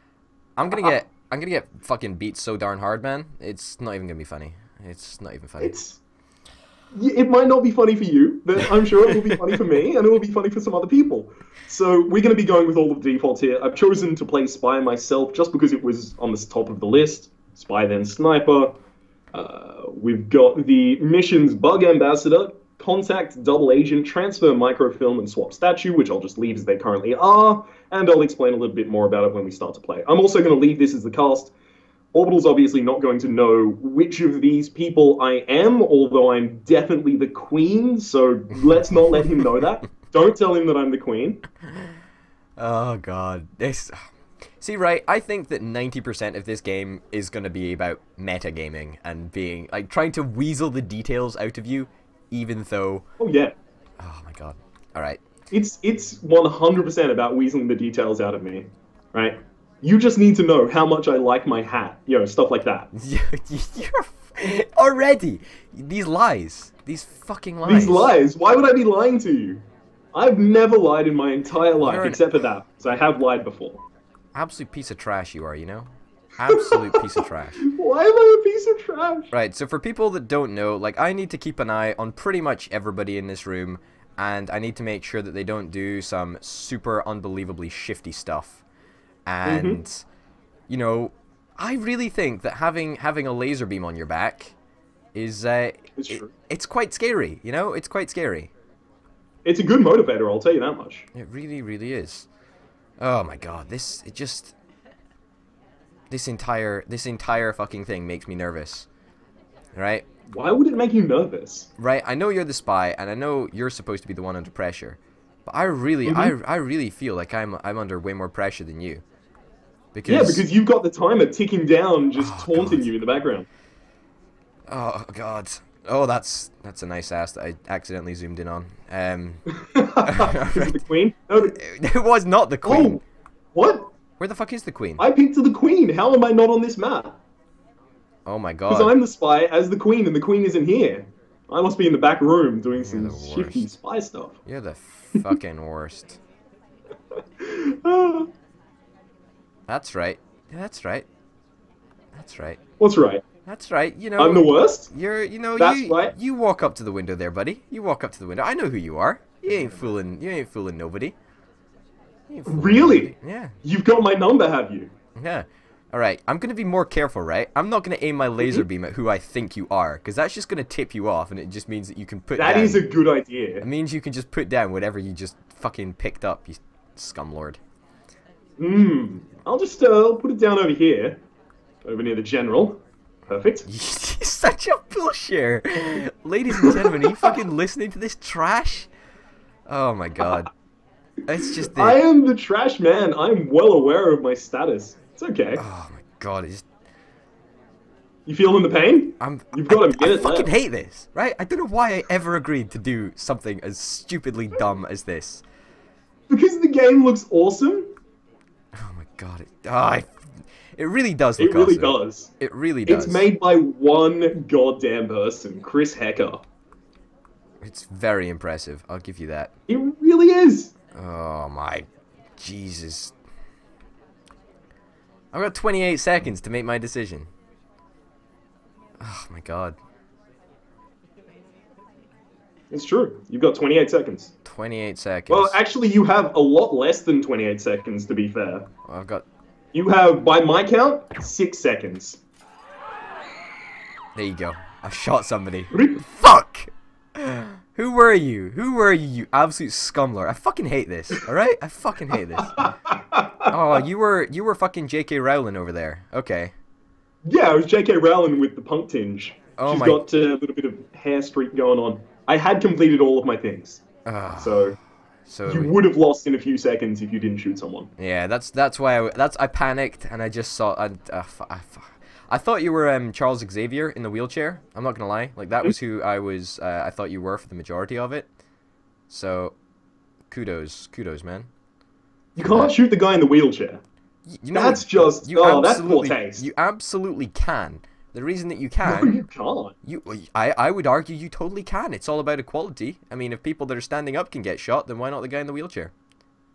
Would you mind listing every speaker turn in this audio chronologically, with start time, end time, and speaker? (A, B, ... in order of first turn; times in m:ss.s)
0:00.6-0:05.8 A
0:05.6-0:06.0 B
0:06.9-0:18.8 B
0:09.1-0:09.6 A
0:19.3-0:31.5 B
0:32.1-0:41.4 B
0:42.6-0:44.0 A
0:44.6-0:53.0 A
0:53.2-0:53.5 B
0:54.0-0:55.2 A
0:55.5-1:02.9 B
1:03.0-1:08.1 A
1:07.6-1:09.6 B
1:10.1-1:13.8 B
1:11.8-1:12.3 A
1:14.4-1:17.6 A
1:16.5-1:19.3 B
1:19.3-1:28.6 A
1:29.3-1:30.0 A
1:29.5-1:29.8 B
1:30.7-1:34.5 A
1:35.2-1:38.5 A
1:36.0-1:36.3 B
1:39.4-1:41.1 B
1:41.2-1:42.3 A
1:43.0-1:44.5 A
1:46.1-1:48.9 A
1:49.8-1:50.0 A
1:50.3-1:51.7 B
1:51.8-1:59.0 A
1:56.1-1:56.3 B
1:59.9-2:00.4 A
2:00.0-2:03.5 B
2:02.2-2:02.9 A
2:04.7-2:09.4 A
2:09.6-2:11.6 B
2:10.0-2:10.8 A
2:11.6-2:13.0 A
2:12.6-2:13.0 B
2:13.6-2:13.9 B
2:14.2-2:15.0 A
2:15.0-2:17.2 B
2:18.3-2:19.0 A
2:18.7-2:24.4 B
2:22.8-2:23.7 A
2:24.5-2:26.2 A
2:27.4-2:28.3 B
2:29.7-2:31.1 A
2:32.2-2:32.6 A
2:32.8-2:33.2 B
2:33.5-2:41.2 A
2:34.2-2:34.9 B
2:35.6-2:36.1 B
2:39.5-2:39.9 B
2:42.3-2:43.5 A
2:42.5-2:43.1 B
2:43.6-2:44.9 B
2:45.2-2:52.9 A
2:52.4-2:53.6 B
2:53.6-2:57.6 A
2:58.6-3:01.2 B
3:01.8-3:02.8 B
3:03.3-3:03.7 B
3:03.7-3:08.9 A
3:06.6-3:07.4 B
3:09.7-3:10.5 A
3:11.3-3:12.0 A
3:11.6-3:15.6 B
3:15.6-3:16.6 A
3:18.3-3:20.5 B
3:19.2-3:25.4 A
3:26.3-3:27.9 B
3:28.8-3:30.1 A
3:30.8-3:33.3 A
3:31.4-3:32.3 B
3:32.9-3:36.4 B
3:37.6-3:39.5 A
3:39.7-3:40.7 B
3:41.0-3:41.9 A
3:42.4-3:43.1 A
3:45.3-3:47.3 A
3:49.0-3:49.8 A
3:52.7-3:54.3 B
3:54.4-3:55.6 A
3:55.3-3:58.7 B
3:58.9-3:59.2 A
3:59.7-4:02.2 B
4:04.2-4:12.6 A
4:05.7-4:06.0 B
4:12.5-4:13.4 B
4:13.5-4:16.5 A
4:17.2-4:23.8 B
4:19.6-4:20.0 A
4:24.1-4:24.7 A
4:24.4-4:24.8 B
4:25.3-4:25.7 A
4:25.5-4:27.9 B
4:28.0-4:38.3 A
4:39.1-4:39.6 A
4:40.3-4:41.5 A
4:42.4-4:43.8 B
4:42.4-4:42.7 A
4:44.3-4:49.2 A
4:44.5-4:46.5 B
4:48.8-4:49.8 B
4:49.8-4:55.9 A